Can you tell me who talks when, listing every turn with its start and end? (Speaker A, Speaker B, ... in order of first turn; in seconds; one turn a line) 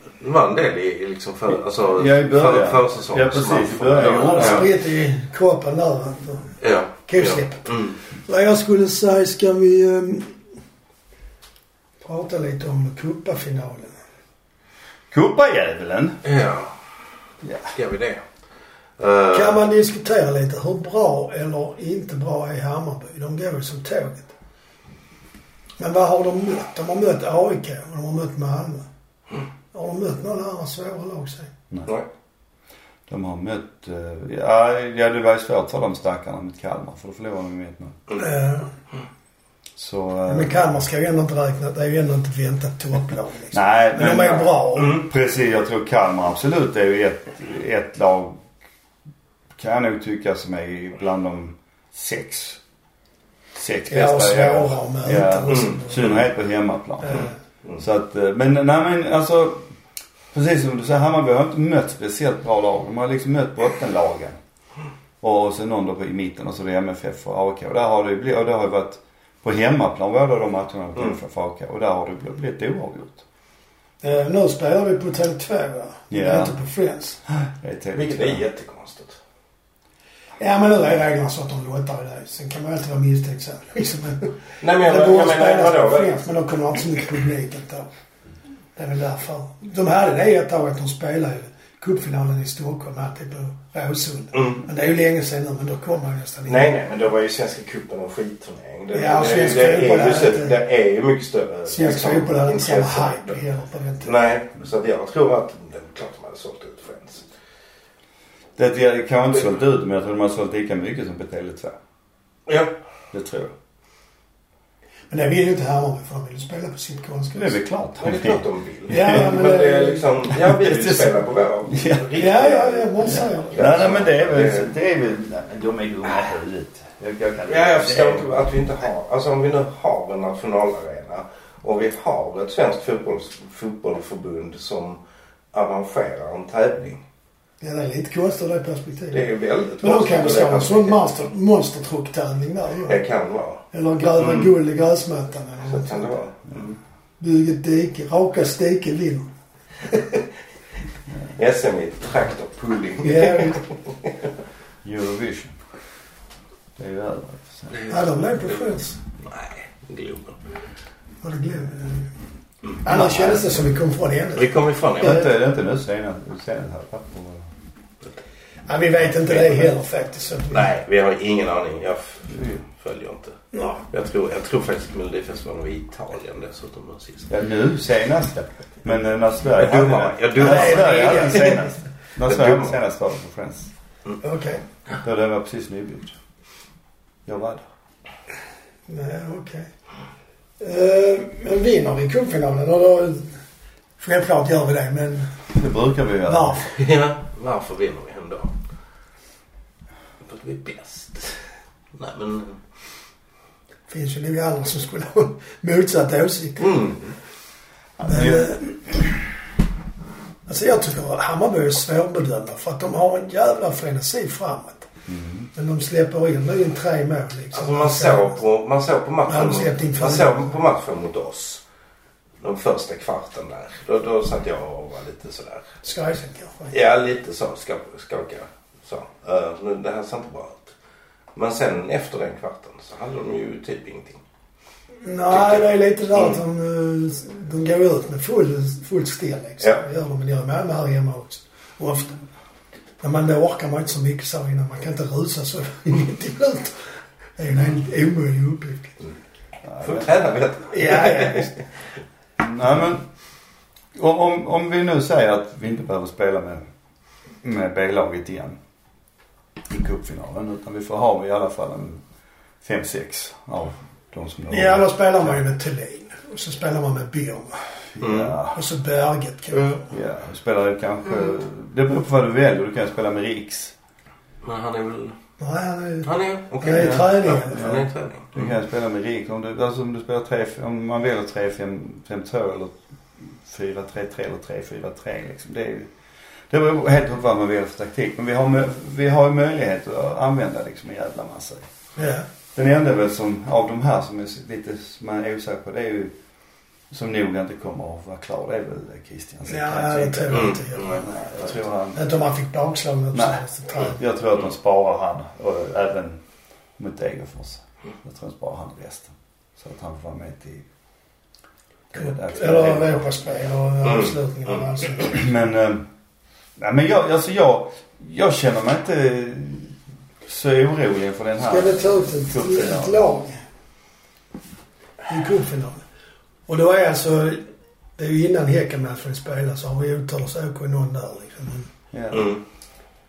Speaker A: 0.2-4.7
Speaker B: 1.9-4.7
Speaker C: 4.2-7.7
Speaker A: 6.6-8.0
Speaker C: 8.2-10.3
Speaker C: 12.0-13.9
Speaker B: 15.1-16.2
Speaker A: 16.2-16.7
Speaker B: 17.4-17.7
Speaker A: 17.7-18.2
Speaker A: 19.0-19.6
Speaker C: 19.3-24.3
Speaker C: 25.8-28.9
Speaker C: 29.7-31.5
Speaker B: 33.1-38.0
Speaker C: 38.1-38.7
Speaker B: 39.8-40.7
Speaker C: 40.3-45.0
Speaker B: 43.5-48.4
Speaker B: 49.5-52.6
Speaker B: 53.5-59.7
Speaker C: 53.9-56.1
Speaker C: 57.0-57.3
Speaker B: 60.3-64.4
Speaker B: 65.2-73.2
Speaker C: 74.0-77.2
Speaker B: 76.1-76.5
Speaker B: 77.3-78.4
Speaker A: 77.9-79.2
Speaker C: 80.4-87.9
Speaker A: 84.6-86.1
Speaker C: 88.8-96.7
Speaker A: 94.3-94.6
Speaker A: 96.5-103.4
Speaker C: 98.9-100.6
Speaker C: 101.7-104.2
Speaker A: 104.0-107.2
Speaker B: 108.6-111.8
Speaker A: 112.5-112.7
Speaker B: 113.1-113.5
Speaker C: 115.1-117.6
Speaker B: 117.3-119.2
Speaker A: 118.0-124.7
Speaker C: 118.9-120.1
Speaker B: 120.3-122.2
Speaker C: 122.1-124.0
Speaker B: 123.1-128.3
Speaker A: 127.5-135.0
Speaker A: 135.5-137.0
Speaker C: 137.6-139.3
Speaker A: 139.1-141.1
Speaker C: 139.8-143.0
Speaker A: 142.9-143.6
Speaker C: 143.7-146.2
Speaker A: 144.2-144.5
Speaker A: 145.7-146.8
Speaker C: 147.2-149.3
Speaker A: 151.3-153.7
Speaker C: 153.0-153.6
Speaker B: 154.8-155.6
Speaker B: 156.8-157.7
Speaker A: 157.7-160.4
Speaker C: 157.9-159.0
Speaker C: 161.2-162.1
Speaker C: 162.8-165.3
Speaker B: 162.9-163.4
Speaker A: 164.3-165.2
Speaker B: 165.0-167.5
Speaker C: 168.7-170.7
Speaker A: 169.3-169.7
Speaker A: 170.5-173.4
Speaker B: 172.3-172.6
Speaker C: 173.5-173.8
Speaker A: 173.9-177.3
Speaker B: 177.3-183.7
Speaker A: 179.6-181.6
Speaker C: 180.4-181.7
Speaker A: 182.2-182.8
Speaker C: 184.2-184.6
Speaker B: 185.0-186.1
Speaker B: 187.2-187.7
Speaker C: 188.9-189.7
Speaker C: 190.6-193.4
Speaker C: 194.0-195.3
Speaker B: 195.5-196.6
Speaker C: 196.2-196.8
Speaker A: 196.7-198.5
Speaker A: 200.2-201.4
Speaker A: 201.9-202.6
Speaker C: 203.9-206.9
Speaker A: 206.6-207.1
Speaker B: 208.0-208.7
Speaker C: 208.0-208.8
Speaker C: 210.5-214.9
Speaker B: 215.1-215.5
Speaker C: 215.5-218.4
Speaker A: 217.5-221.6
Speaker C: 219.3-220.5
Speaker A: 222.4-225.7
Speaker C: 225.8-226.7
Speaker A: 226.7-230.7
Speaker A: 231.3-234.2
Speaker C: 235.0-242.2
Speaker A: 235.3-236.4
Speaker C: 243.0-246.8
Speaker C: 247.4-249.0
Speaker B: 249.6-250.1
Speaker A: 249.8-251.6
Speaker C: 250.7-251.5
Speaker B: 252.4-253.1
Speaker B: 253.9-256.6
Speaker B: 257.4-258.6
Speaker B: 259.7-262.0
Speaker B: 262.6-265.4
Speaker C: 264.5-267.6
Speaker B: 267.9-268.6
Speaker A: 268.0-268.4
Speaker C: 268.5-269.9
Speaker B: 269.9-273.7
Speaker A: 274.4-275.2
Speaker C: 275.4-277.7
Speaker A: 276.0-278.5
Speaker B: 276.7-285.9
Speaker B: 286.5-291.6
Speaker C: 291.9-292.2
Speaker B: 292.5-296.1
Speaker B: 296.9-302.0
Speaker C: 299.5-301.2
Speaker A: 300.3-301.1
Speaker C: 301.9-304.0
Speaker B: 303.1-306.2
Speaker B: 306.8-310.6
Speaker B: 311.9-313.0
Speaker C: 311.9-315.3
Speaker A: 313.9-314.1
Speaker B: 315.1-315.9
Speaker B: 316.6-323.0
Speaker C: 321.4-323.4
Speaker C: 325.1-325.8
Speaker C: 326.5-327.4
Speaker C: 328.0-331.7
Speaker B: 331.9-332.3
Speaker A: 332.1-332.4